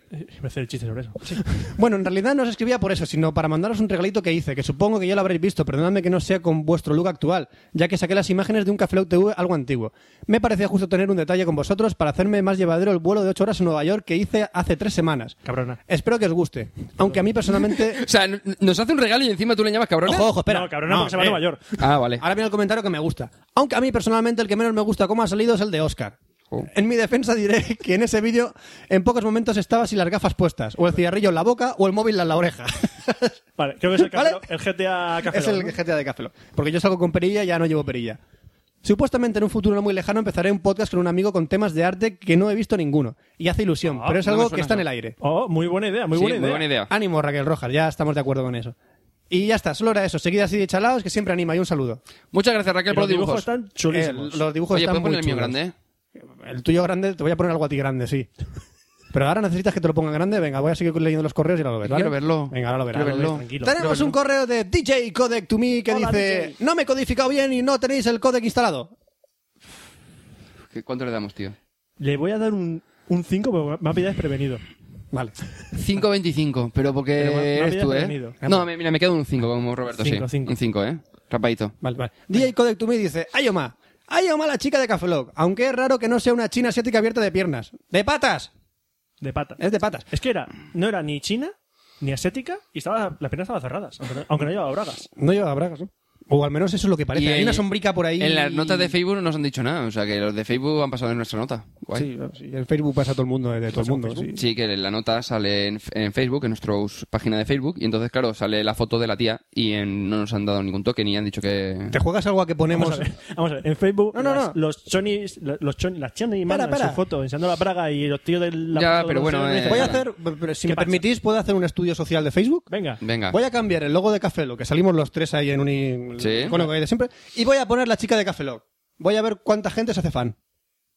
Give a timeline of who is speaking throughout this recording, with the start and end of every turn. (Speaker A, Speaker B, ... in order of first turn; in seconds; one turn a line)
Speaker A: 0.1-1.7
Speaker B: 1.3-18.0
Speaker A: 15.4-15.8
Speaker C: 17.9-20.3
Speaker B: 20.0-21.4
Speaker A: 20.5-21.6
Speaker C: 21.8-22.2
Speaker B: 22.1-33.4
Speaker A: 33.6-35.8
Speaker B: 34.0-34.5
Speaker B: 35.3-38.2
Speaker B: 38.8-45.1
Speaker A: 43.9-44.2
Speaker C: 44.2-44.8
Speaker A: 45.2-46.6
Speaker C: 46.1-46.9
Speaker B: 46.9-48.7
Speaker B: 49.3-52.0
Speaker C: 52.3-53.5
Speaker A: 52.9-54.4
Speaker B: 53.9-55.5
Speaker C: 54.7-55.7
Speaker B: 56.2-58.3
Speaker B: 59.1-68.9
Speaker C: 61.8-64.1
Speaker A: 62.9-64.1
Speaker A: 65.9-66.6
Speaker C: 70.7-71.5
Speaker A: 72.0-74.6
Speaker C: 75.7-81.7
Speaker A: 77.2-78.3
Speaker A: 80.0-80.5
Speaker B: 81.8-88.5
Speaker A: 89.2-89.6
Speaker B: 89.6-90.0
Speaker A: 90.1-95.1
Speaker B: 95.2-98.9
Speaker C: 97.1-97.7
Speaker C: 98.2-102.0
Speaker B: 101.9-104.4
Speaker A: 103.7-104.3
Speaker C: 104.3-112.0
Speaker B: 111.9-113.1
Speaker A: 112.7-120.1
Speaker B: 114.1-114.5
Speaker B: 116.5-117.0
Speaker C: 118.7-120.0
Speaker B: 119.6-122.7
Speaker A: 120.6-121.0
Speaker A: 122.7-123.0
Speaker C: 123.0-123.4
Speaker B: 123.3-130.3
Speaker C: 126.2-126.6